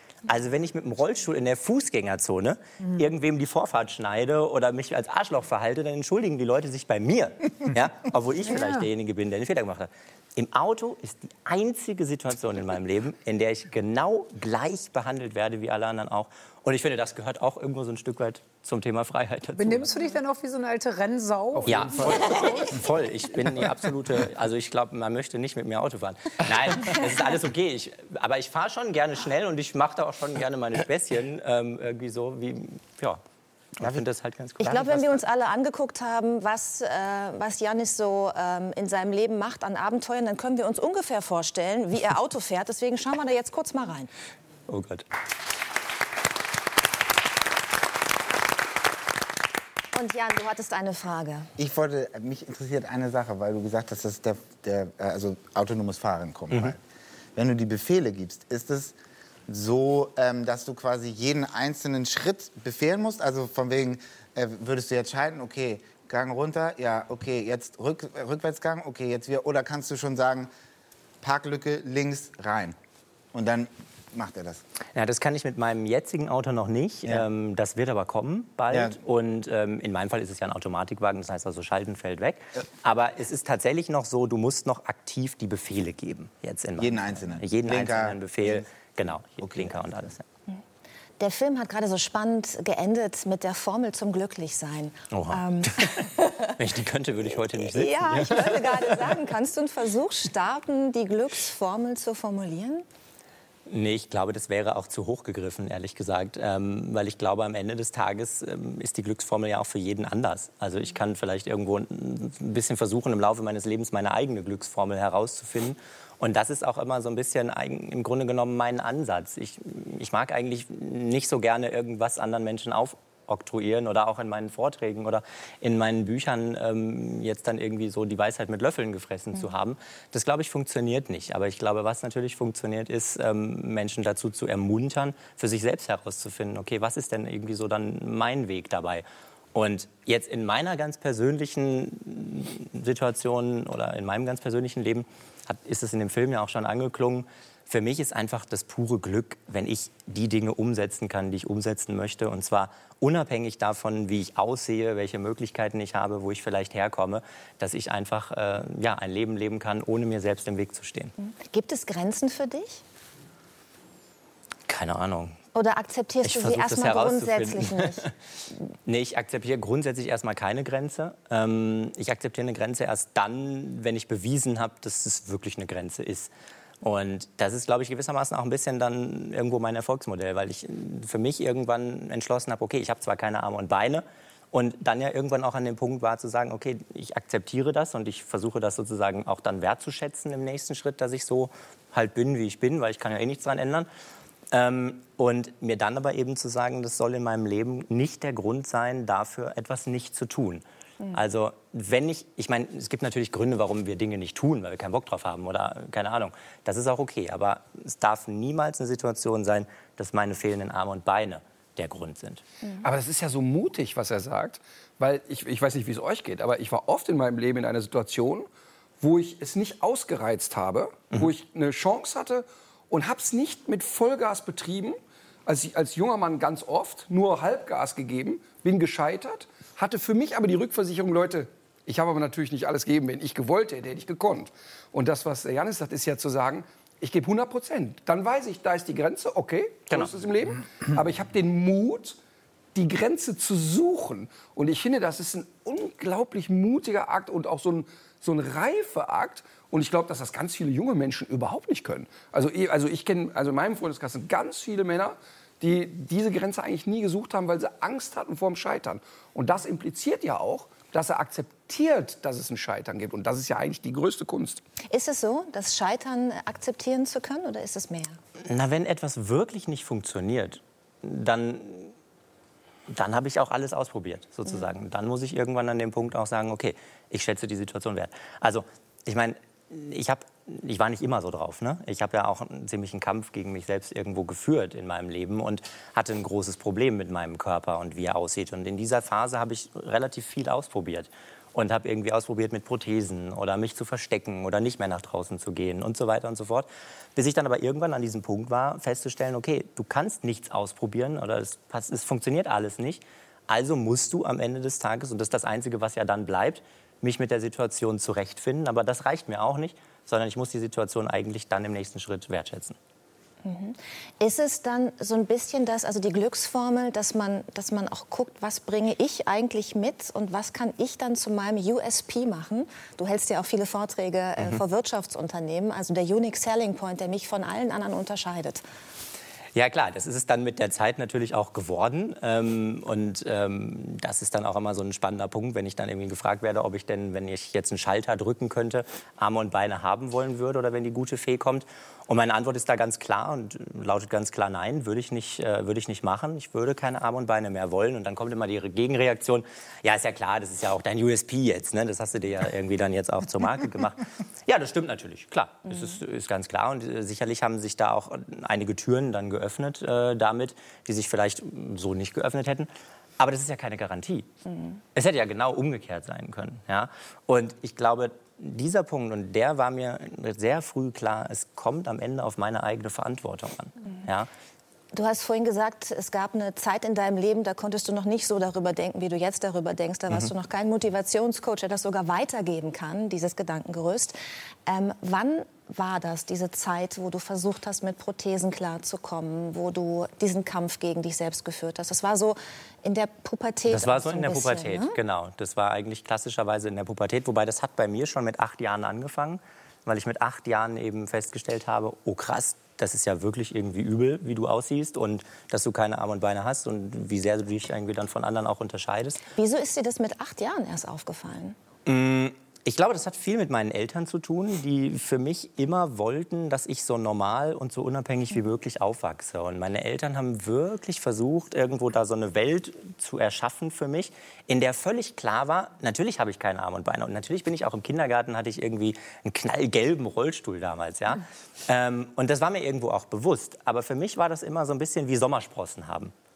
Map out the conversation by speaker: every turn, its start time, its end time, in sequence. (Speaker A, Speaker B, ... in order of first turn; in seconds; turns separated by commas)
Speaker A: 0.3-20.0, Speaker B: 19.6-22.8, Speaker C: 21.6-22.2, Speaker A: 21.6-33.2, Speaker A: 33.8-35.2, Speaker D: 34.6-44.1, Speaker A: 44.7-45.0, Speaker D: 49.9-51.5, Speaker E: 51.6-56.8, Speaker E: 57.3-58.9, Speaker E: 59.5-70.5, Speaker E: 71.2-72.8, Speaker E: 73.3-74.6, Speaker A: 74.9-90.2, Speaker E: 78.7-79.0, Speaker E: 86.8-88.6, Speaker E: 89.4-89.7, Speaker D: 91.2-96.5, Speaker A: 95.1-99.1, Speaker D: 97.6-102.8, Speaker A: 103.7-161.1, Speaker D: 161.2-162.8, Speaker A: 164.7-165.4, Speaker D: 165.5-168.1, Speaker A: 166.2-168.1, Speaker A: 168.8-176.3, Speaker A: 176.8-193.9, Speaker A: 194.5-212.4, Speaker C: 212.8-218.5, Speaker C: 219.0-242.2, Speaker C: 242.7-264.6, Speaker D: 264.9-268.2, Speaker A: 268.4-271.9, Speaker A: 272.9-312.8, Speaker D: 313.4-328.6, Speaker A: 329.5-364.3, Speaker A: 364.9-374.3, Speaker D: 374.9-394.9, Speaker A: 393.7-409.2, Speaker D: 409.3-411.6, Speaker A: 411.9-436.1